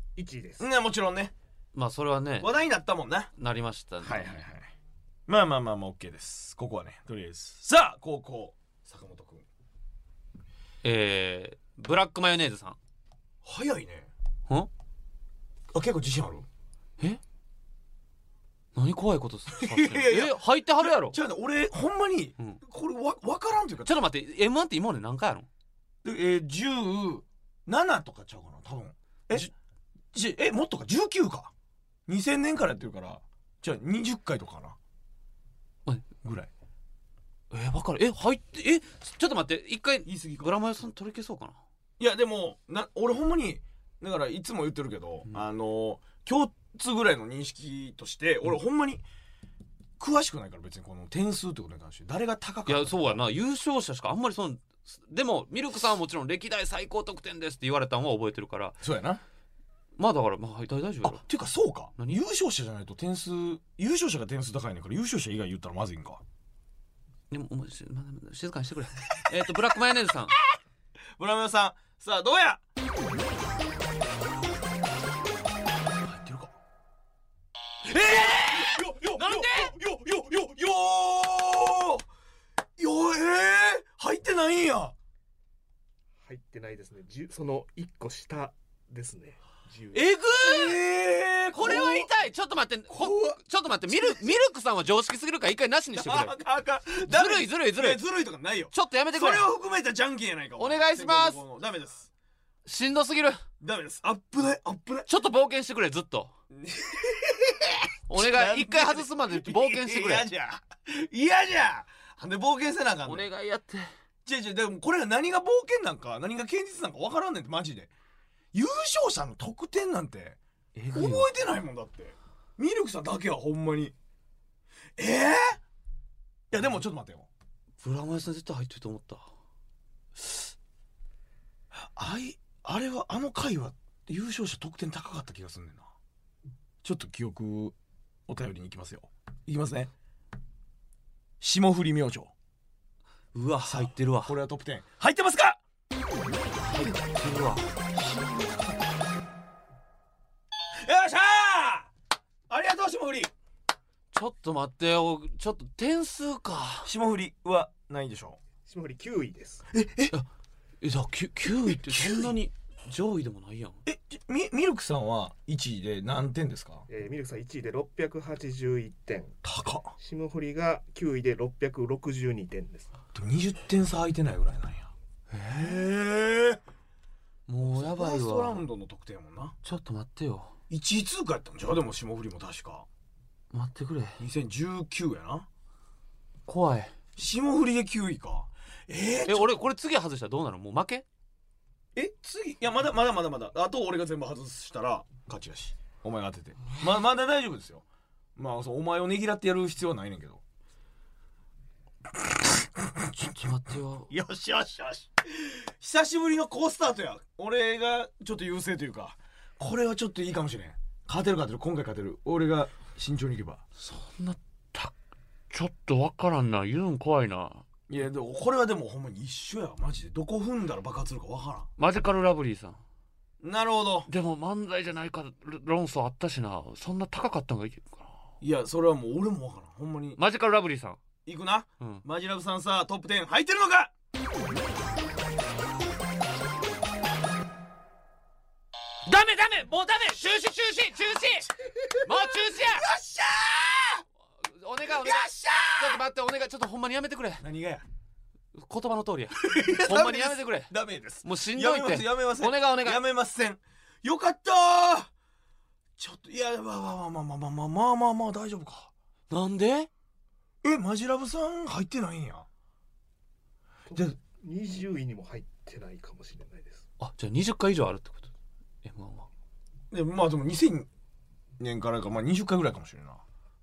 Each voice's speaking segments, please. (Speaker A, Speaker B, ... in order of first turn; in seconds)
Speaker A: 0.1-0.7, 86.2-90.1, 158.6-159.7, 166.9-169.4, 170.0-172.9, 263.9-266.8
Speaker B: 0.6-1.3, 2.4-3.3, 4.0-4.7, 5.3-9.4, 13.4-14.1, 15.7-16.4, 19.5-24.0, 26.0-29.5, 30.1-31.5, 32.1-34.8, 36.2-36.5, 40.0-40.5, 42.0-49.0, 50.0-53.1, 58.8-59.2, 61.0-66.2, 71.2-72.6, 76.0-76.5, 77.9-82.0, 82.8-84.9, 90.3-92.1, 92.9-94.2, 95.9-102.1, 103.6-105.1, 106.5-113.3, 114.2-117.9, 118.5-120.4, 120.9-123.9, 125.0-125.6, 126.5-127.3, 131.7-135.9, 136.8-137.7, 138.3-139.9, 141.4-142.3, 143.6-145.6, 147.9-148.9, 150.8-151.9, 152.5-153.3, 156.8-158.4, 159.7-160.1, 161.4-162.4, 163.8-166.8, 169.4-169.9, 173.1-174.9, 175.5-176.6, 177.6-179.5, 180.7-182.8, 184.2-185.5, 187.2-189.5, 191.9-197.8, 198.3-200.4, 202.4-203.1, 204.1-213.6, 217.9-221.7, 223.4-224.1, 228.4-230.2, 231.2-233.9, 241.9-244.0, 244.8-246.0, 247.4-247.8, 249.4-255.1, 256.0-258.9, 260.6-262.5, 269.9-270.9, 271.6-273.2
Speaker C: 1.7-2.5, 3.3-4.4, 10.8-12.8, 18.8-21.2, 23.8-25.5, 37.5-41.6, 52.6-58.8, 60.0-61.2, 67.3-70.3, 77.9-79.7, 89.9-90.8, 91.5-96.3, 97.0-98.0, 98.7-99.5, 100.6-101.4, 102.7-103.4, 105.1-106.3, 108.1-110.3, 113.0-113.9, 120.8-121.3, 127.8-129.3, 143.3-144.3, 146.6-147.7, 154.1-156.9, 160.8-163.8, 175.3-175.8, 177.5-178.6, 179.6-180.5, 183.5-184.2, 186.5-186.9, 189.2-191.0, 203.2-204.1, 213.8-214.9, 215.5-217.6, 221.8-222.8, 224.1-228.1, 230.2-231.0, 239.1-241.5, 242.0-242.9, 244.4-247.4, 248.5-250.7, 251.2-253.0, 259.3-259.9, 267.0-268.3, 268.8-269.3